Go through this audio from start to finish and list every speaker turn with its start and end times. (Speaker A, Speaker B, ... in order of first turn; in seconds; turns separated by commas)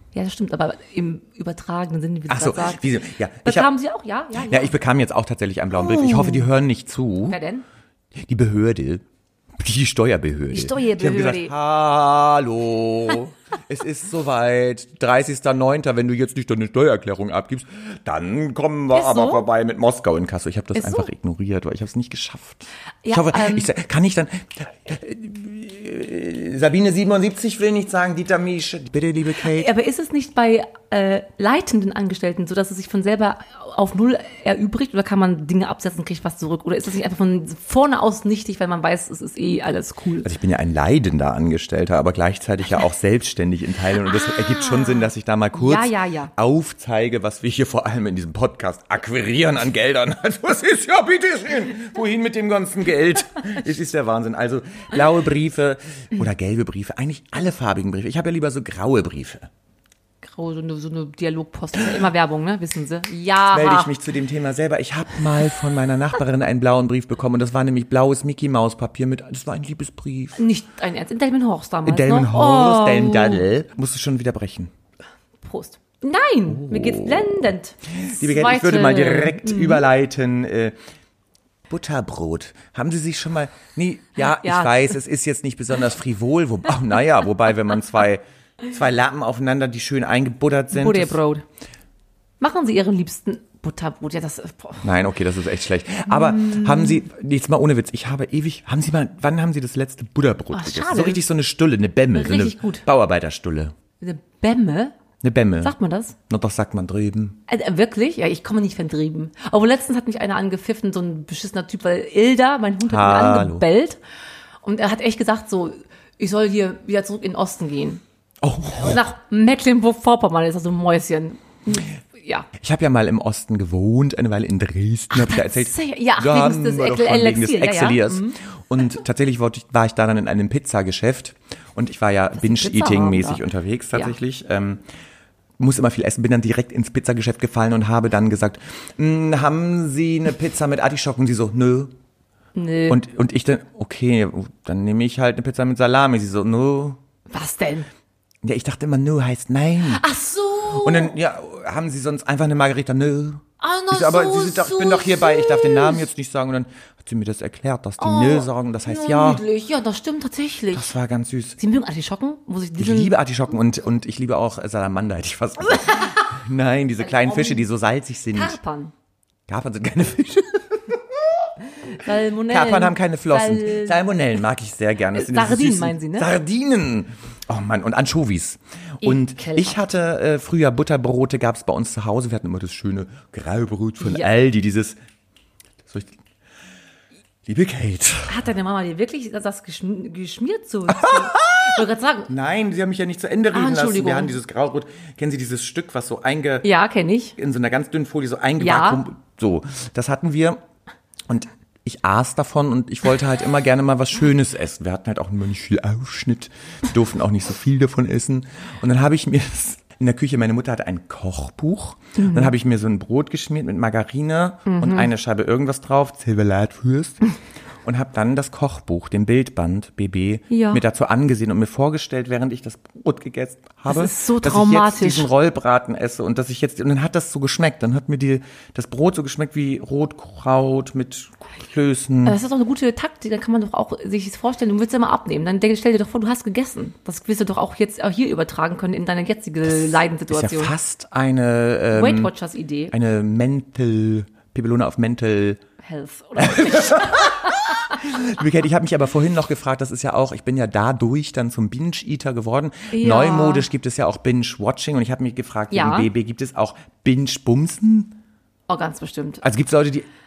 Speaker A: 0.1-2.9, Speaker B: 2.3-3.7, Speaker A: 3.4-4.7, Speaker B: 4.4-7.4, Speaker A: 5.8-6.5, Speaker A: 7.3-7.7, Speaker B: 8.2-9.0, Speaker B: 9.6-29.7, Speaker A: 10.5-11.5, Speaker A: 18.9-19.4, Speaker A: 20.8-21.1, Speaker A: 23.0-23.7, Speaker A: 29.4-40.3, Speaker B: 40.2-59.5, Speaker A: 44.1-46.3, Speaker A: 60.2-63.9, Speaker B: 63.5-70.4, Speaker A: 70.4-73.5, Speaker B: 71.8-74.7, Speaker A: 75.4-79.8, Speaker B: 76.5-80.8, Speaker B: 81.7-91.2, Speaker A: 84.2-85.0, Speaker A: 90.7-91.5, Speaker A: 92.4-94.9, Speaker B: 94.8-103.7, Speaker A: 96.1-97.0, Speaker A: 100.5-101.2, Speaker A: 102.1-102.8, Speaker A: 104.0-105.0, Speaker B: 105.2-105.8, Speaker A: 105.6-106.2, Speaker B: 106.3-107.4, Speaker A: 107.5-114.0, Speaker B: 112.9-113.7, Speaker A: 114.6-118.0, Speaker B: 118.4-119.0, Speaker A: 118.7-122.5, Speaker B: 122.6-134.8, Speaker A: 125.1-128.4, Speaker A: 132.4-133.4, Speaker B: 135.6-141.9, Speaker A: 142.6-143.0, Speaker B: 142.9-147.0, Speaker A: 147.3-147.9, Speaker B: 148.4-150.0, Speaker A: 149.9-151.2, Speaker B: 150.7-159.4, Speaker A: 153.6-156.1, Speaker A: 158.0-160.9, Speaker B: 160.7-161.6, Speaker A: 161.6-163.1, Speaker B: 162.8-168.6, Speaker A: 167.0-167.6, Speaker A: 168.3-168.9, Speaker B: 169.5-171.5, Speaker A: 171.8-174.0, Speaker B: 172.5-185.0, Speaker A: 175.1-176.3, Speaker A: 179.0-179.8, Speaker A: 184.0-184.3, Speaker B: 185.9-186.2, Speaker B: 187.5-188.5, Speaker A: 188.3-192.3, Speaker B: 190.9-196.7, Speaker A: 193.5-194.4, Speaker A: 196.6-197.4, Speaker B: 197.4-200.6, Speaker A: 198.6-199.0, Speaker B: 201.3-217.2, Speaker A: 212.2-212.5, Speaker A: 214.7-215.1, Speaker B: 217.8-232.4, Speaker A: 220.5-220.8, Speaker A: 223.9-225.3, Speaker A: 232.2-240.7, Speaker B: 239.7-242.3, Speaker A: 241.9-242.9, Speaker B: 242.9-245.6, Speaker A: 245.8-247.9, Speaker B: 246.4-258.2, Speaker A: 252.9-253.7, Speaker A: 255.7-256.1, Speaker A: 258.7-259.4, Speaker B: 259.4-260.1